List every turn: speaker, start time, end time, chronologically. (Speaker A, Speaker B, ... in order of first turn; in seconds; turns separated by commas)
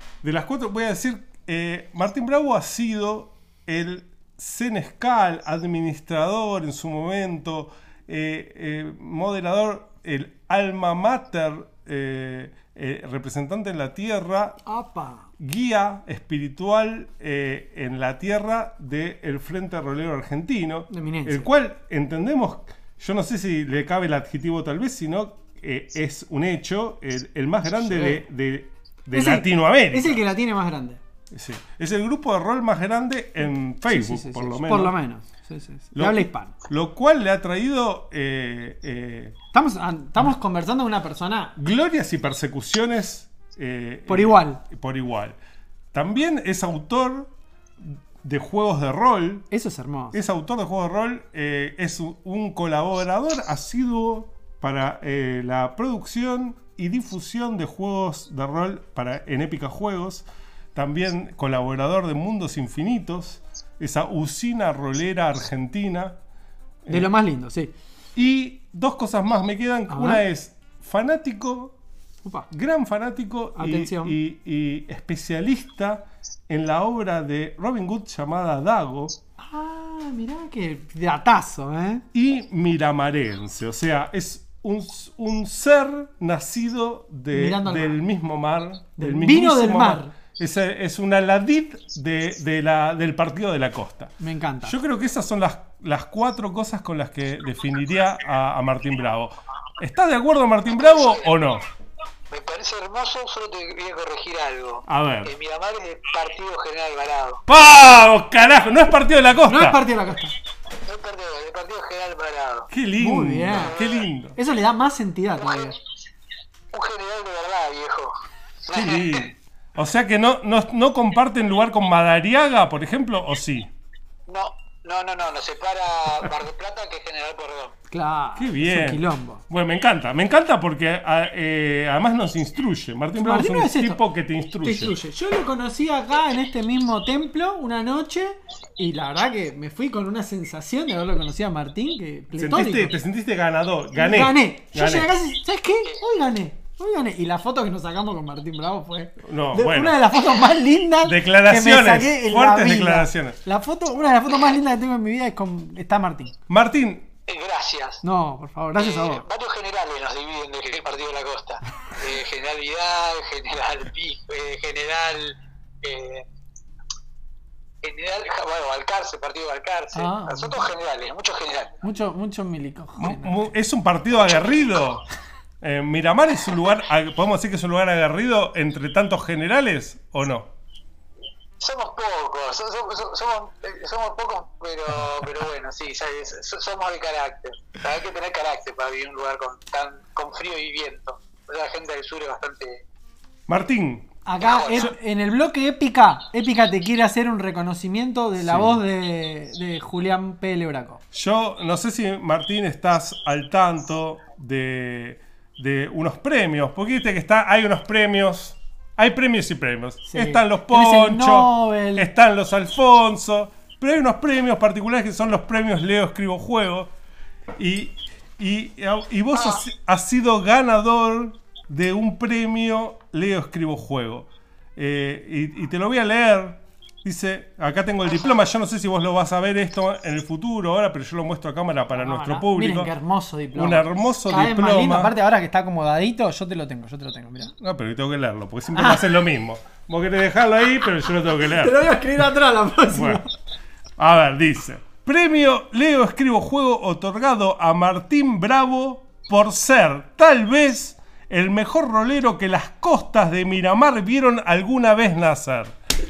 Speaker A: 0.2-14.6, Speaker B: 14.7-15.3, Speaker A: 15.4-30.2, Speaker B: 20.9-21.5, Speaker B: 27.7-28.2, Speaker B: 29.1-31.0, Speaker A: 31.3-35.0, Speaker B: 33.9-36.5, Speaker A: 35.9-39.3, Speaker B: 39.5-41.5, Speaker A: 41.6-45.4, Speaker B: 44.1-44.6, Speaker A: 45.9-49.5, Speaker B: 49.5-50.2, Speaker A: 50.1-66.2, Speaker A: 66.8-67.1, Speaker B: 66.9-67.7, Speaker A: 68.1-71.7, Speaker B: 69.9-70.2, Speaker A: 72.5-79.2, Speaker B: 73.5-74.2, Speaker B: 79.4-82.0, Speaker A: 82.1-101.6, Speaker B: 87.3-88.0, Speaker B: 89.0-90.1, Speaker B: 94.2-94.8, Speaker C: 100.7-101.3, Speaker C: 102.3-107.4, Speaker A: 104.9-105.3, Speaker A: 107.5-109.8, Speaker B: 109.5-110.3, Speaker C: 110.8-112.7, Speaker A: 112.7-114.4, Speaker B: 113.0-113.8, Speaker C: 113.5-114.0, Speaker B: 114.3-115.7, Speaker C: 115.4-115.8, Speaker C: 116.7-118.1, Speaker C: 118.6-119.3, Speaker A: 118.7-123.7, Speaker C: 124.3-127.8, Speaker B: 127.9-129.4, Speaker A: 128.3-134.9, Speaker B: 133.2-134.0, Speaker B: 134.6-142.9, Speaker A: 142.3-145.1, Speaker B: 143.9-156.3, Speaker A: 149.2-150.0, Speaker A: 151.0-153.4, Speaker A: 156.5-157.1, Speaker C: 157.3-158.0, Speaker B: 158.0-159.2, Speaker C: 158.7-166.3, Speaker C: 167.8-171.8, Speaker B: 169.9-170.6, Speaker B: 171.8-173.5, Speaker A: 173.0-175.0, Speaker A: 175.6-180.5, Speaker C: 181.6-192.8, Speaker A: 193.5-194.1, Speaker B: 194.2-201.0, Speaker C: 194.4-194.9, Speaker A: 198.4-198.8, Speaker A: 201.1-216.9, Speaker B: 210.1-212.1, Speaker A: 217.6-232.9, Speaker B: 232.0-237.5, Speaker A: 233.5-235.1, Speaker A: 237.6-241.8, Speaker B: 238.7-239.1, Speaker B: 241.4-243.3, Speaker A: 242.9-243.2, Speaker A: 244.0-255.7